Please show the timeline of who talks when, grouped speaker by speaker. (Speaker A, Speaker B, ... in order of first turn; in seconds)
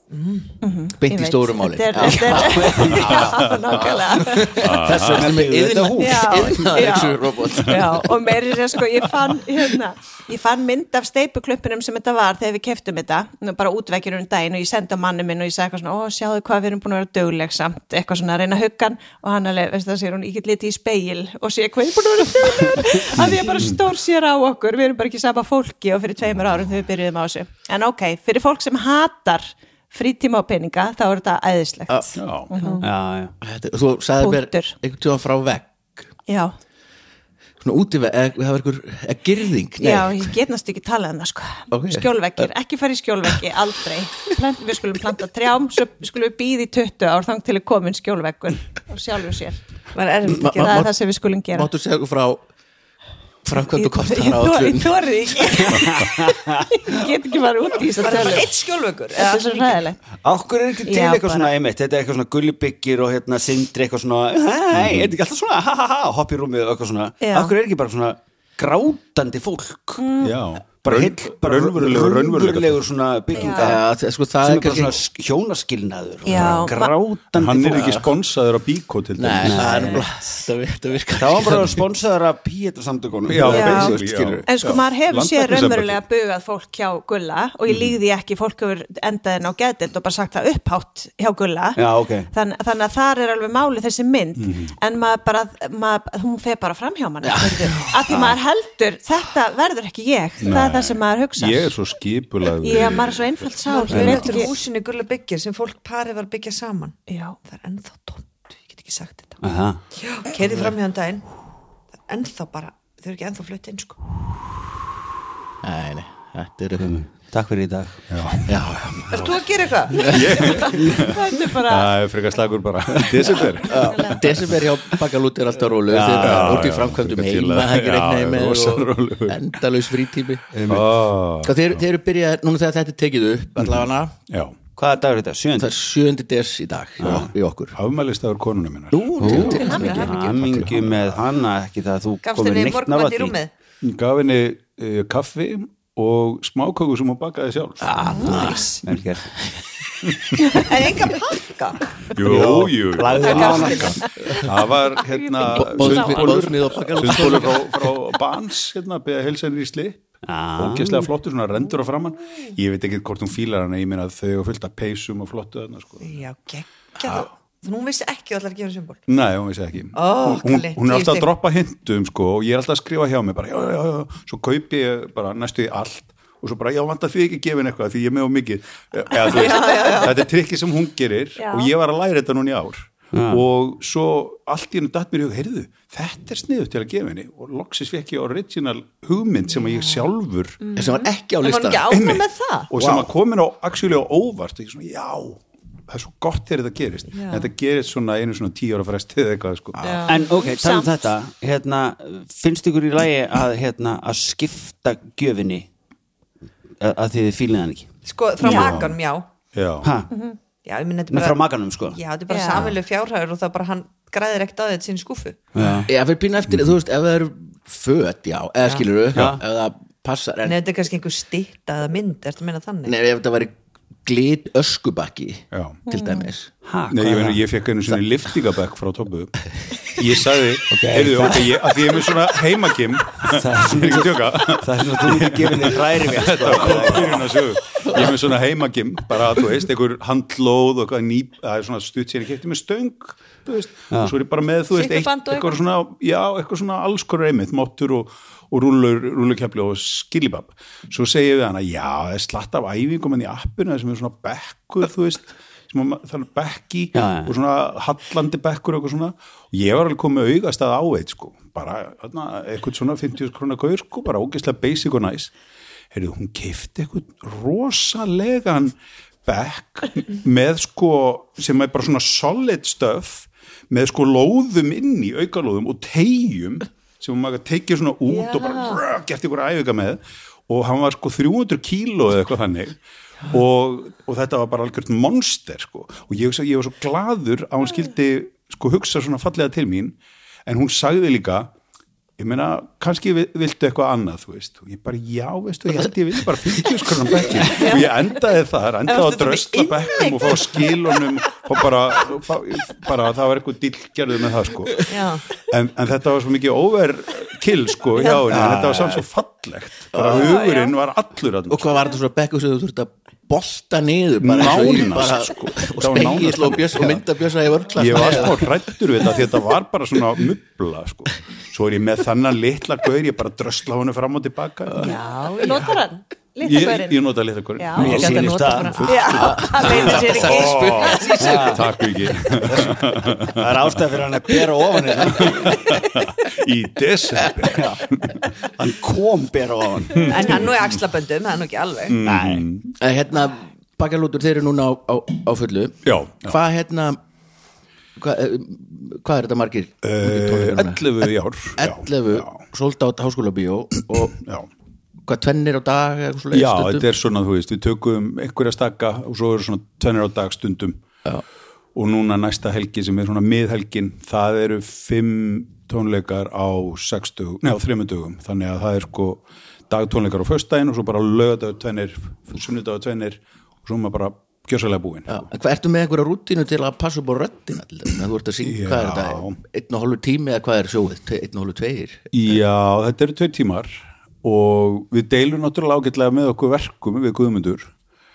Speaker A: 0.1-0.5, 49.9-50.8, 58.0-59.8, 103.7-109.4, 110.0-111.3, 112.1-114.0, 119.1-120.7, 139.3-140.7, 142.2-143.5, 148.3-148.8, 150.5-151.9, 153.1-154.1, 166.0-169.1, 169.9-171.3, 179.1-180.2, 191.4-192.7, 197.1-197.5, 199.8-200.2, 208.1-209.3, 210.7-215.4, 220.4-223.0, 244.7-245.6, 278.1-278.8, 297.5-298.0, 298.9-300.7, 304.9-305.3, 310.3-310.6, 324.8-325.9, 327.8-329.3, 340.0-342.0
Speaker B: 0.6-4.6, 6.0-32.9, 34.2-34.7, 36.3-36.5, 39.8-49.6, 50.5-51.7, 53.7-58.5, 59.1-60.0, 60.9-61.5, 67.2-67.5, 70.0-70.4, 73.3-73.8, 76.2-76.9, 83.5-101.7, 102.6-104.5, 107.1-107.4, 120.4-122.0, 123.8-124.1, 139.6-139.9, 148.0-148.7, 150.4-150.7, 155.0-156.2, 179.3-180.1, 181.4-181.7, 190.7-191.1, 200.3-200.9, 208.5-208.8, 210.1-210.4, 212.3-212.6, 225.9-226.3, 324.8-327.0, 327.6-328.0, 328.9-331.1
Speaker C: 1.0-3.4, 4.1-8.3, 33.4-36.1, 37.6-40.3, 41.7-42.5, 50.3-50.9, 51.5-52.5, 53.4-55.0, 73.5-75.0, 77.7-78.1, 79.2-81.8, 83.4-84.5, 97.2-97.9, 115.6-117.0, 118.5-119.3, 119.9-120.5, 123.6-130.5, 131.4-134.2, 135.6-137.8, 138.9-140.1, 147.8-148.7, 155.5-157.9, 190.8-191.8, 192.8-193.1, 199.8-200.1, 215.9-220.6, 222.9-226.5, 309.9-310.3, 311.5-318.6, 329.1-331.8, 337.1-337.7, 342.8-347.0, 348.0-354.2, 355.1-356.9, 375.1-382.1
Speaker D: 2.4-3.2, 4.9-6.6, 32.8-33.3, 55.6-56.7, 60.2-70.1, 70.8-73.8, 74.4-78.0, 79.4-80.1, 81.2-84.0, 91.8-92.3, 98.1-98.4, 103.9-104.4, 109.4-109.8, 116.8-118.1, 120.7-121.0, 125.9-126.6, 130.5-130.9, 134.8-135.7, 137.0-137.3, 139.2-143.4, 148.3-149.3, 152.2-154.0, 160.3-161.1, 183.1-183.4, 200.1-205.7, 206.8-207.9, 209.8-210.1, 211.1-212.0, 215.6-215.9, 219.1-219.4, 226.7-227.4, 230.7-231.6, 233.2-237.4, 256.9-257.3, 308.3-309.1, 327.8-328.9, 329.6-330.1, 331.2-331.7, 332.3-335.7, 337.5-337.9, 338.5-340.4, 342.1-342.5
Speaker E: 3.0-3.8, 4.6-5.3, 23.2-23.8, 32.1-32.5, 64.7-65.2, 70.2-72.8, 76.3-76.7, 77.3-80.0, 83.3-86.0, 87.7-87.9, 94.4-94.7, 100.4-103.5, 118.1-119.4, 120.0-124.4, 126.2-129.4, 130.7-131.8, 133.6-134.6, 137.1-141.2, 143.8-148.0, 150.0-150.7, 152.1-166.1, 169.1-190.6, 191.9-199.8, 208.4-209.0, 209.5-209.9, 225.5-225.8, 226.9-265.3, 265.9-291.5, 292.2-311.8, 314.2-317.0, 317.8-324.9, 326.4-333.9, 335.1-338.3, 339.9-340.5, 341.9-342.7, 345.9-346.4, 349.8-352.4, 354.1-354.5, 356.3-360.9, 361.8-375.3, 378.4-379.4, 382.1-387.7